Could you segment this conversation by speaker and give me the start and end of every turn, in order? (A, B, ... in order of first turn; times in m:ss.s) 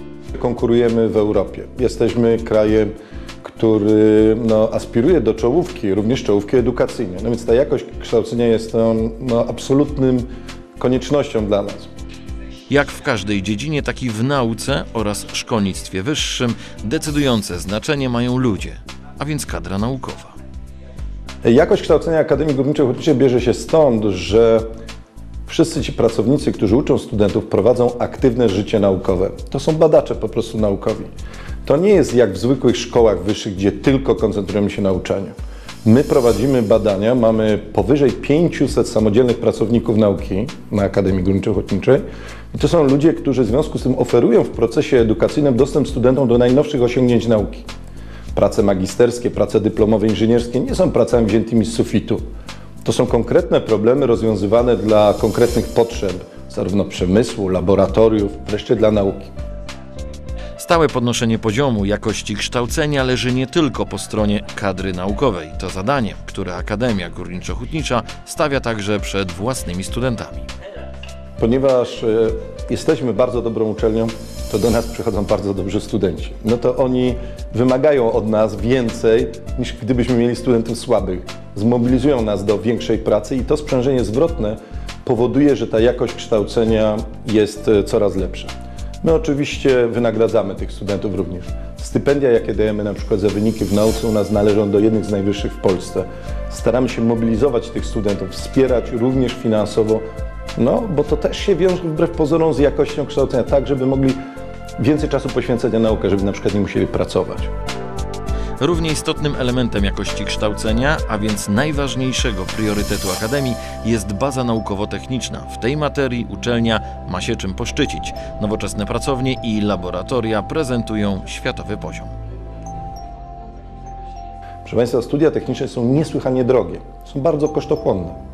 0:00.3-0:02.9 A
0:03.4-0:11.9 A
0:12.7-0:20.3 B
0:21.4-0:24.6 A
0:25.5-0:31.1 A
0:31.6-0:47.7 A
0:48.3-0:52.2 A
0:52.8-0:59.3 A
1:00.6-1:10.5 B
1:11.4-1:40.0 A
1:40.6-1:44.2 A
1:44.8-1:47.5 A
1:48.6-2:02.1 B
2:04.6-2:08.2 A